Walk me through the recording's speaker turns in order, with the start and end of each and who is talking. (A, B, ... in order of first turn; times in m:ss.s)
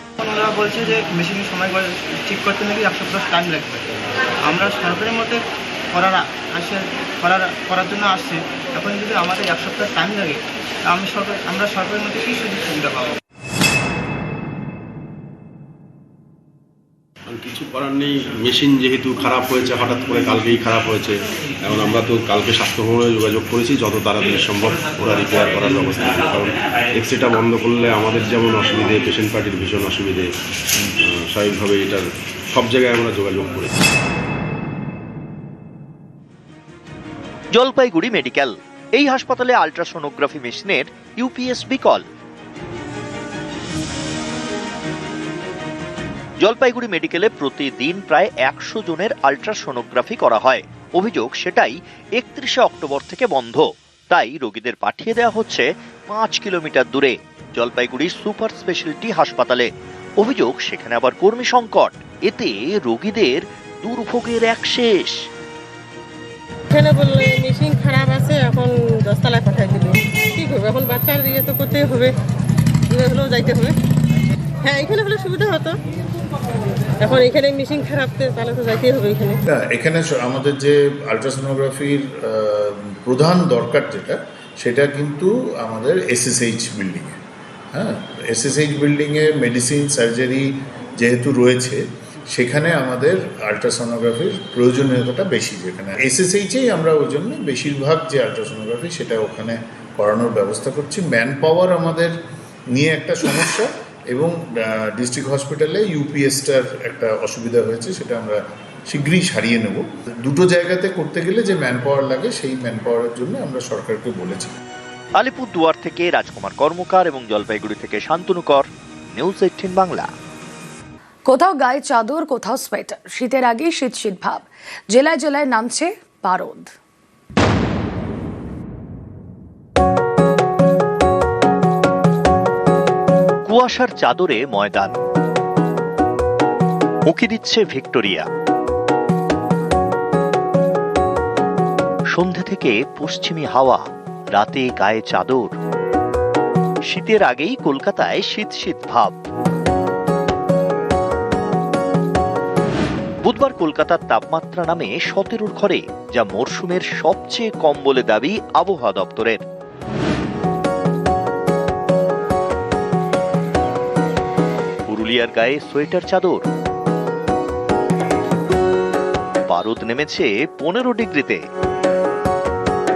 0:00.2-0:05.4 A
0:05.9-0:13.2 A
0:17.3-0:30.3 B
0:31.0-0:33.7 B
0:37.5-0:42.0 C
0:46.4-0:59.7 C
1:00.2-1:05.2 C
1:06.7-1:12.2 D
1:12.9-1:13.8 D
1:14.6-1:15.8 D
1:17.0-1:19.4 D
1:19.5-1:27.2 E
1:27.7-1:30.4 E
1:31.0-1:42.1 E
1:42.7-1:48.4 E
1:48.9-1:54.6 E
1:55.2-2:00.1 C
2:01.3-2:06.7 F
2:13.4-2:15.0 C
2:17.1-2:18.3 C
2:22.1-2:25.5 C
2:26.9-2:29.2 C
2:33.2-2:39.4 C
2:44.9-2:46.4 C
2:49.5-2:51.4 C